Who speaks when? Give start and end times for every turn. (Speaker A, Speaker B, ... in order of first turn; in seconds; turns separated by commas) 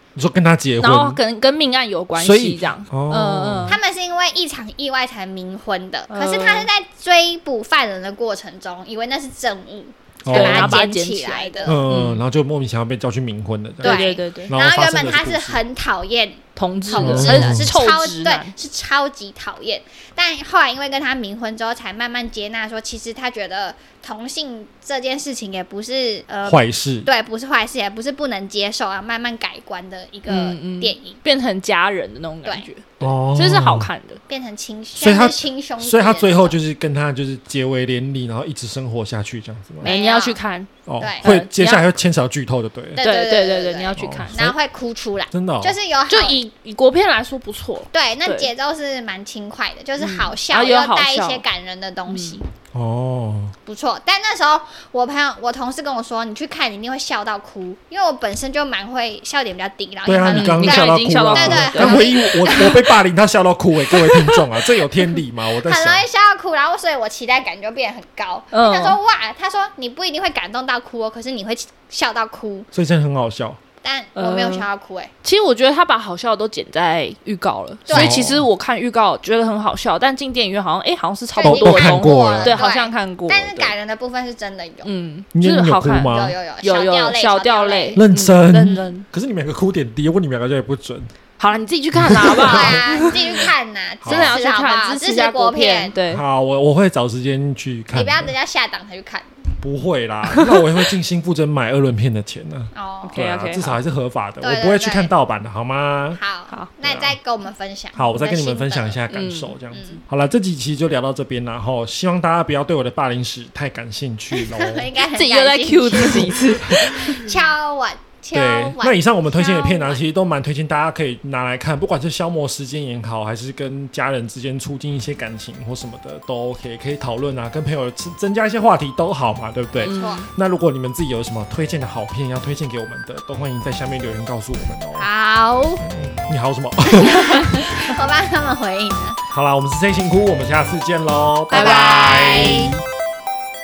Speaker A: 0.2-1.2, Speaker B: 0.8-3.8, Speaker A: 2.2-3.8, Speaker C: 3.7-11.8, Speaker B: 6.1-6.7, Speaker A: 10.2-10.8, Speaker B: 10.3-12.2, Speaker A: 11.7-15.6, Speaker B: 13.8-14.5, Speaker C: 13.8-31.2, Speaker B: 16.6-18.5, Speaker A: 17.0-17.8, Speaker A: 26.4-27.1, Speaker B: 30.3-34.2, Speaker A: 33.0-33.9, Speaker C: 34.3-36.6, Speaker A: 35.0-39.9, Speaker B: 39.8-41.9, Speaker C: 39.8-40.4, Speaker A: 40.9-43.1, Speaker C: 41.0-41.3, Speaker C: 43.0-46.4, Speaker B: 43.0-44.5, Speaker A: 44.0-44.6, Speaker A: 45.3-45.8, Speaker B: 46.1-48.5, Speaker C: 47.9-52.5, Speaker B: 50.0-51.4, Speaker B: 52.1-52.4, Speaker A: 52.7-53.5, Speaker C: 53.6-62.9, Speaker A: 60.1-66.0, Speaker B: 60.3-62.1, Speaker C: 64.1-64.4, Speaker C: 65.6-72.7, Speaker B: 68.5-69.0, Speaker A: 72.7-73.6, Speaker C: 73.8-75.1, Speaker B: 74.2-74.7, Speaker B: 75.2-83.7, Speaker C: 77.9-78.3, Speaker A: 77.9-78.5, Speaker C: 81.3-84.9, Speaker A: 81.4-82.6, Speaker B: 84.8-89.1, Speaker A: 85.3-86.3, Speaker C: 86.1-88.0, Speaker A: 88.0-91.1, Speaker B: 91.4-93.5, Speaker A: 92.0-93.1, Speaker C: 92.3-96.0, Speaker A: 94.0-94.3, Speaker B: 94.0-96.2, Speaker A: 96.1-98.3, Speaker C: 97.9-99.3, Speaker A: 99.6-106.2, Speaker B: 100.3-100.6, Speaker C: 102.7-103.2, Speaker B: 103.0-103.8, Speaker C: 104.4-105.1, Speaker C: 106.2-109.0, Speaker A: 106.8-107.2, Speaker A: 108.0-114.9, Speaker B: 109.1-109.6, Speaker C: 109.7-110.0, Speaker C: 114.5-120.0, Speaker B: 115.1-117.3, Speaker A: 116.7-117.2, Speaker A: 118.3-135.1, Speaker B: 129.8-130.3, Speaker C: 129.9-130.3, Speaker C: 135.0-135.8, Speaker A: 135.8-137.9, Speaker C: 137.0-139.2, Speaker A: 139.3-142.8, Speaker C: 141.5-142.8